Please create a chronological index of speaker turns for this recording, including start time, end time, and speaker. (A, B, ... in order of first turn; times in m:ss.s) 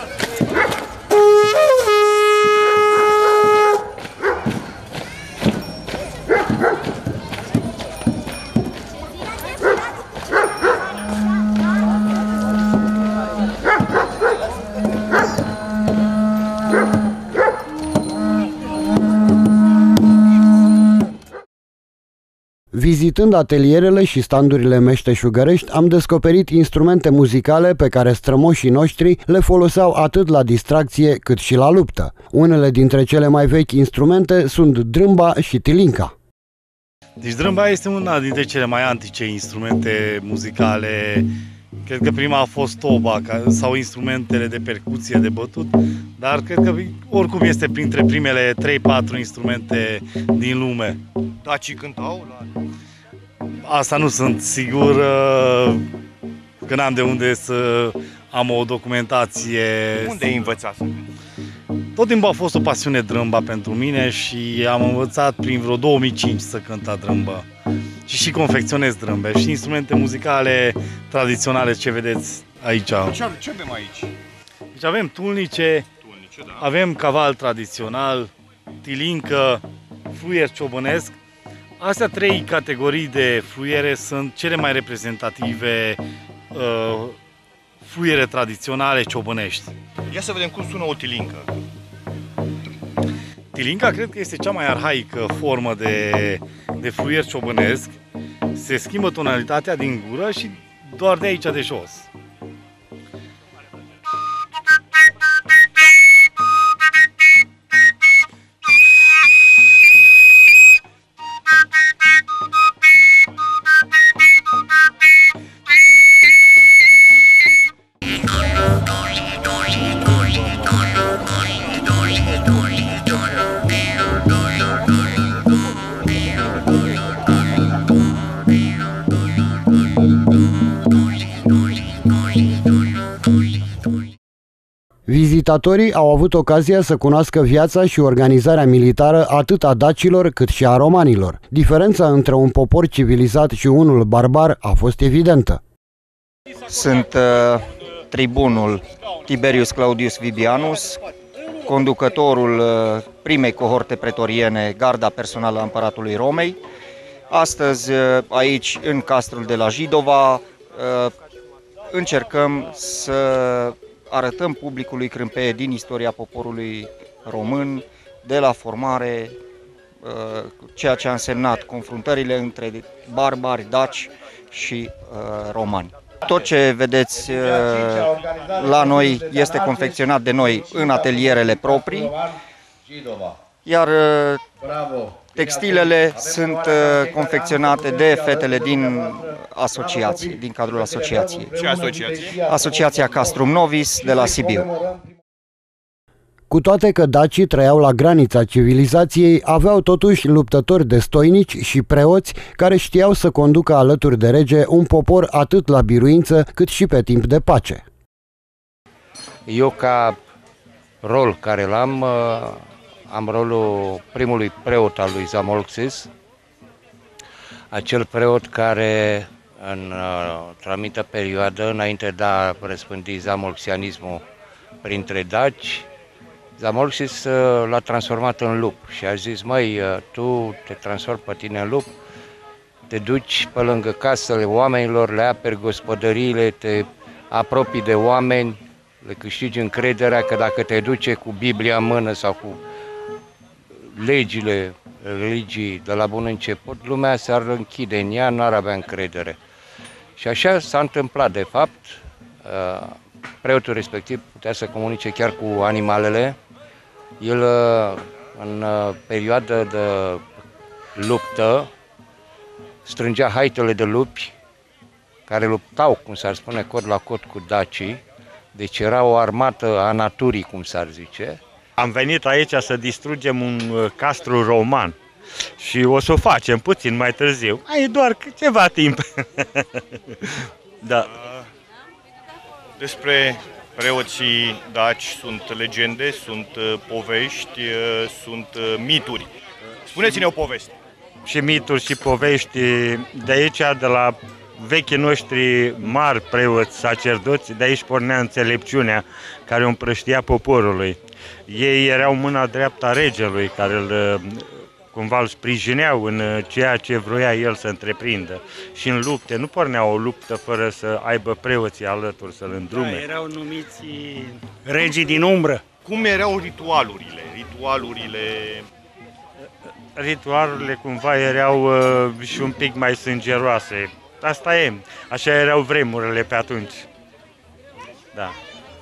0:22.7-0:36.1 A
0:37.2-0:41.3 B
0:41.8-0:51.0 B
0:51.4-0:52.4 C
0:53.6-0:55.9 B
0:56.6-1:00.5 B
1:00.1-1:01.0 C
1:01.9-1:07.5 B
1:08.0-1:13.2 B
1:13.1-1:14.1 C
1:14.7-1:15.9 B
1:16.6-1:18.3 B
1:18.8-1:21.2 B
1:21.8-1:26.0 B
1:26.5-1:27.2 B
1:27.8-1:29.7 B
1:30.1-1:31.4 C
1:33.5-1:38.0 B
1:38.5-1:42.1 B
2:15.1-2:25.6 A
2:26.7-2:31.0 D
2:31.6-2:36.6 D
2:37.3-2:41.1 D
2:41.9-2:49.3 D
2:50.0-3:02.2 D
3:03.6-3:04.4 D
3:05.3-3:11.7 D
3:11.6-3:12.3 C
3:12.4-3:14.8 D
3:16.5-3:27.8 A
3:29.5-3:30.2 E
3:31.0-3:36.1 E
3:37.7-3:44.2 E
3:44.8-3:45.8 E
3:46.6-3:51.9 E
3:52.9-4:02.6 E
4:03.9-4:09.4 E
4:10.2-4:16.4 E
4:17.2-4:20.2 E
4:21.0-4:21.7 E
4:22.8-4:24.3 E
4:25.3-4:28.0 E
4:28.5-4:31.4 E
4:31.8-4:34.9 F
4:35.6-4:41.1 F
4:42.8-4:49.3 C
4:49.9-4:50.7 C
4:51.2-5:13.1 F
5:12.7-5:15.6 G
5:15.9-5:18.6 C
5:20.0-5:26.8 F